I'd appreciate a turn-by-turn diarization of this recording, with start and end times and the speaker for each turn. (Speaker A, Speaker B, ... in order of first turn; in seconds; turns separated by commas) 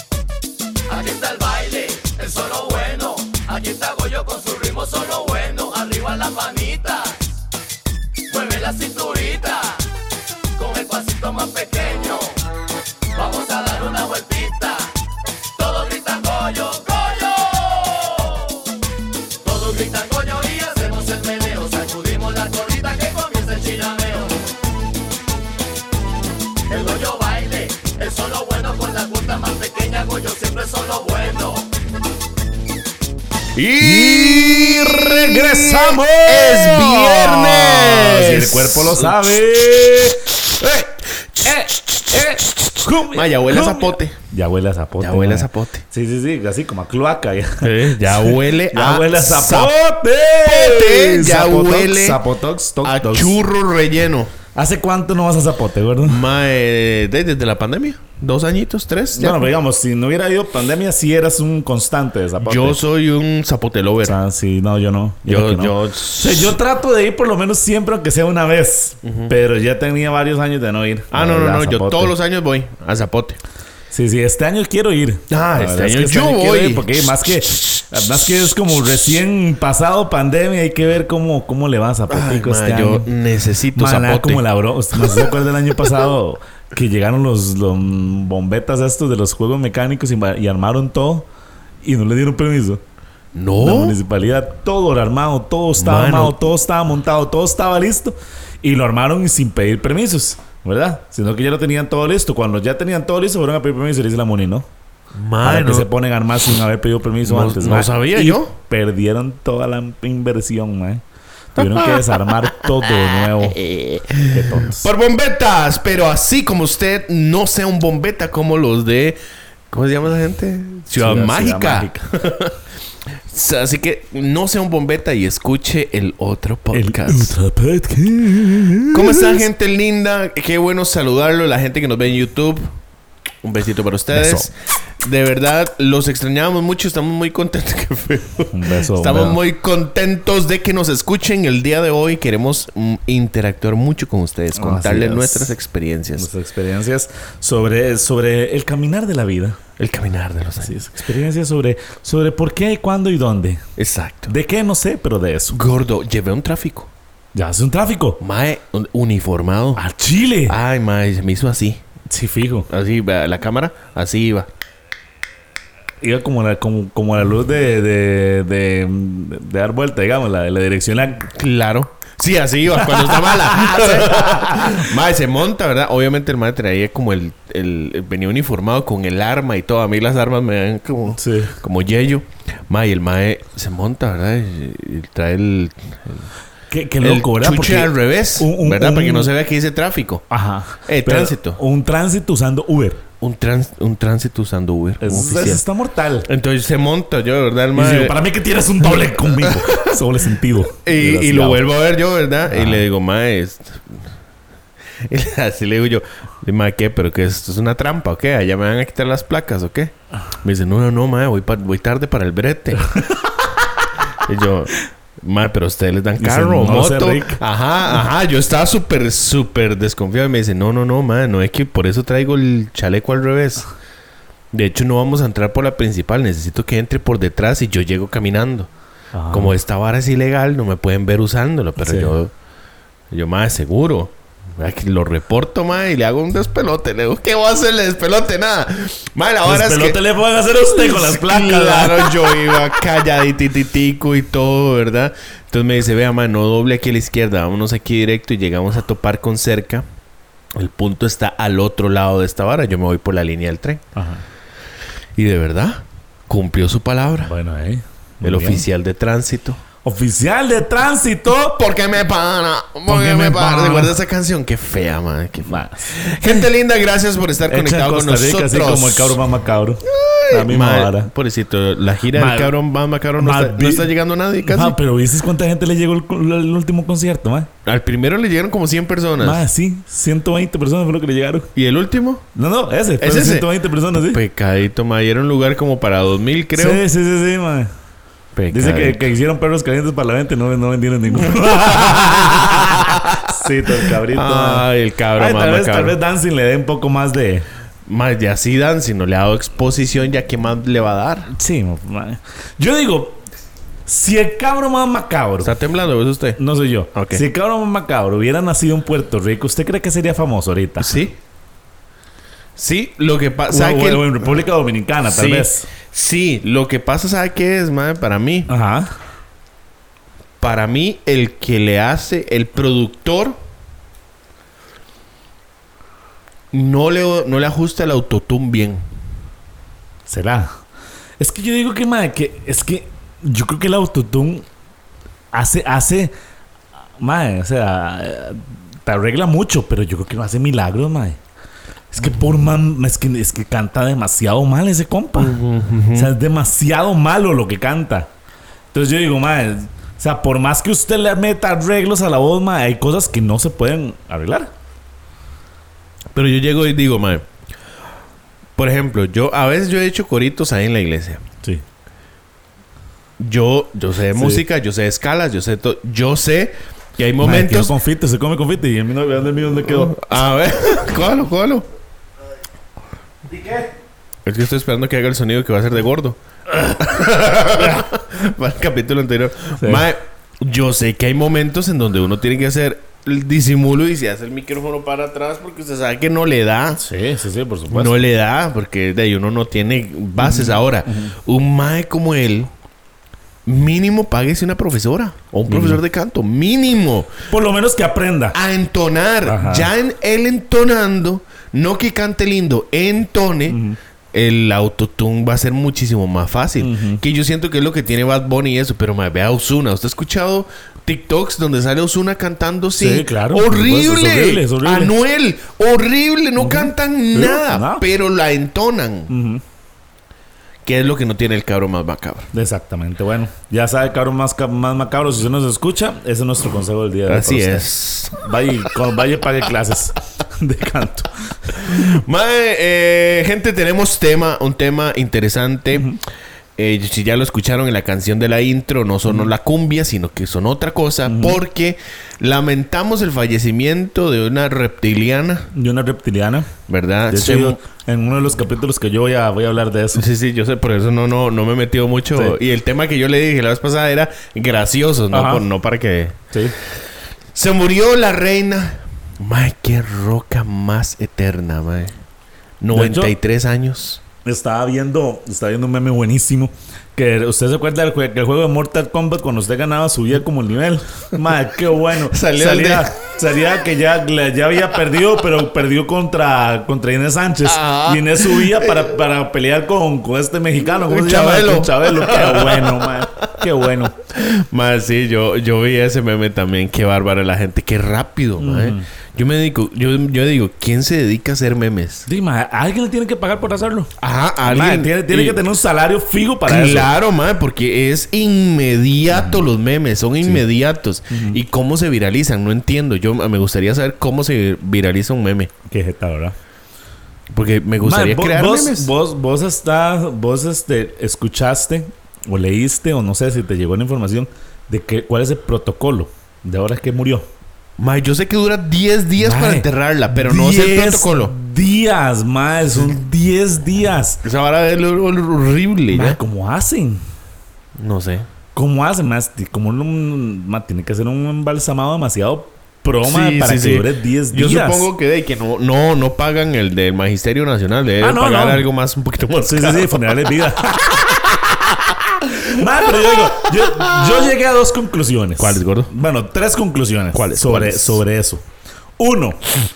Speaker A: 0.9-7.3, Speaker A: 8.3-9.8, Speaker A: 10.5-12.4, Speaker A: 13.1-14.9, Speaker A: 15.6-18.6, Speaker A: 19.4-24.4, Speaker A: 26.7-31.7, Speaker B: 33.6-39.2, Speaker C: 33.8-40.4, Speaker B: 40.6-44.2, Speaker C: 41.4-53.4, Speaker B: 45.0-45.8, Speaker B: 47.6-49.8, Speaker B: 50.5-52.2, Speaker B: 52.8-54.3, Speaker C: 54.5-56.2, Speaker B: 56.0-59.5, Speaker C: 59.1-62.8, Speaker B: 62.4-64.2, Speaker C: 64.0-72.1, Speaker B: 65.3-66.6, Speaker B: 69.0-69.3, Speaker B: 71.1-73.4, Speaker C: 73.9-83.1, Speaker B: 75.3-76.9, Speaker B: 82.1-84.5, Speaker C: 83.8-91.3, Speaker B: 85.0-85.3, Speaker C: 91.8-92.8, Speaker B: 93.3-94.0, Speaker C: 93.6-104.7, Speaker B: 95.8-96.4, Speaker B: 105.2-105.9, Speaker C: 105.4-111.0, Speaker B: 107.2-108.5, Speaker C: 111.5-113.6, Speaker B: 111.6-112.2, Speaker B: 112.9-119.2, Speaker C: 114.3-114.9, Speaker B: 119.7-122.5, Speaker C: 121.0-122.0, Speaker B: 123.2-127.3, Speaker C: 126.7-129.4, Speaker B: 128.9-132.7, Speaker B: 133.4-146.3, Speaker C: 134.1-134.5, Speaker C: 138.5-139.4, Speaker C: 144.5-145.6, Speaker C: 146.2-149.6, Speaker B: 149.8-150.8, Speaker C: 150.6-153.6, Speaker B: 153.8-154.3, Speaker C: 154.3-155.6, Speaker B: 155.5-156.9, Speaker C: 157.3-158.2, Speaker B: 158.2-159.8, Speaker C: 159.8-160.6, Speaker B: 160.5-161.8, Speaker C: 162.1-162.7, Speaker B: 162.7-164.5, Speaker C: 166.0-171.3, Speaker B: 171.2-186.3, Speaker C: 172.8-174.9, Speaker C: 181.2-181.5, Speaker C: 186.7-189.3, Speaker B: 187.0-190.2, Speaker C: 190.3-193.0, Speaker B: 190.9-191.6, Speaker B: 193.2-195.6, Speaker C: 195.0-196.3, Speaker B: 196.3-198.2, Speaker C: 197.7-201.6, Speaker B: 199.3-199.9, Speaker B: 200.8-204.0, Speaker C: 202.5-202.8, Speaker B: 205.1-212.8, Speaker C: 212.9-213.5, Speaker B: 214.2-223.7, Speaker C: 216.2-217.4, Speaker B: 224.5-228.7, Speaker C: 229.1-229.5, Speaker B: 229.3-232.3, Speaker C: 231.8-232.1, Speaker B: 233.1-240.0, Speaker C: 239.4-242.6, Speaker B: 240.6-249.8, Speaker B: 250.6-253.8, Speaker C: 253.9-254.2, Speaker B: 255.2-257.3, Speaker C: 257.2-258.6, Speaker B: 258.2-259.6, Speaker C: 259.8-261.6, Speaker B: 261.6-269.2, Speaker C: 262.9-264.0, Speaker C: 265.4-266.5, Speaker C: 267.5-271.1, Speaker B: 269.9-274.8, Speaker C: 272.1-272.5, Speaker C: 273.2-273.9, Speaker C: 274.4-277.5, Speaker B: 277.6-279.4, Speaker C: 279.2-281.5, Speaker B: 281.6-282.2, Speaker C: 282.4-284.2, Speaker B: 283.0-286.8, Speaker C: 286.6-287.7, Speaker B: 288.4-289.0, Speaker C: 288.5-297.5, Speaker B: 291.2-296.0, Speaker B: 297.9-301.3, Speaker C: 301.3-303.2, Speaker C: 303.9-305.5, Speaker B: 305.4-306.4, Speaker C: 306.4-311.0, Speaker B: 306.9-307.2, Speaker B: 310.8-311.1, Speaker B: 312.6-314.4, Speaker C: 313.5-315.7, Speaker B: 315.1-318.5, Speaker C: 318.5-318.9, Speaker B: 320.4-323.4, Speaker B: 326.5-328.9, Speaker C: 330.1-330.5, Speaker C: 331.2-334.4, Speaker C: 335.3-336.1, Speaker C: 337.0-341.2, Speaker C: 341.9-345.4, Speaker B: 345.2-346.1, Speaker C: 345.9-348.1, Speaker C: 348.7-354.5, Speaker B: 356.1-357.3, Speaker B: 358.6-361.2, Speaker B: 363.2-367.7, Speaker C: 364.1-364.4, Speaker C: 367.2-370.1, Speaker B: 369.7-371.7, Speaker C: 373.3-373.7, Speaker B: 374.3-386.8, Speaker C: 379.6-379.9, Speaker C: 386.8-388.1, Speaker B: 387.7-392.5, Speaker C: 390.2-391.1, Speaker B: 393.5-397.1, Speaker C: 395.5-395.8, Speaker C: 397.3-398.4, Speaker B: 398.3-403.6, Speaker C: 399.3-399.7, Speaker C: 403.5-403.8, Speaker B: 404.1-419.1, Speaker C: 406.6-407.0, Speaker C: 412.8-414.9, Speaker C: 416.4-417.9, Speaker C: 419.1-419.4, Speaker B: 420.6-422.3, Speaker C: 422.3-431.8, Speaker B: 427.1-428.2, Speaker B: 431.6-435.9, Speaker C: 435.7-436.0, Speaker B: 436.6-445.5, Speaker C: 441.1-441.4, Speaker C: 445.5-446.5, Speaker B: 446.7-447.6, Speaker C: 447.1-450.1, Speaker B: 449.9-456.2, Speaker C: 455.1-455.4, Speaker B: 457.3-462.0, Speaker B: 462.6-464.0, Speaker C: 462.7-463.1, Speaker C: 464.2-483.9, Speaker B: 472.1-472.9, Speaker B: 477.4-478.9, Speaker B: 480.7-483.0, Speaker B: 484.1-492.1, Speaker C: 488.4-488.9, Speaker C: 492.1-493.9, Speaker B: 494.0-495.4, Speaker C: 494.4-496.9, Speaker B: 496.4-505.5, Speaker C: 499.1-499.4, Speaker C: 501.1-501.4, Speaker C: 505.7-506.4, Speaker B: 507.3-508.9, Speaker C: 507.8-517.3, Speaker B: 517.8-521.3, Speaker C: 519.2-524.2, Speaker B: 524.2-526.2, Speaker C: 525.9-527.0, Speaker B: 527.8-528.3, Speaker C: 528.5-534.9, Speaker B: 533.0-540.0, Speaker C: 538.0-538.7, Speaker C: 539.4-548.5, Speaker B: 543.1-544.2, Speaker B: 545.4-545.9, Speaker B: 547.1-548.0, Speaker C: 549.0-549.5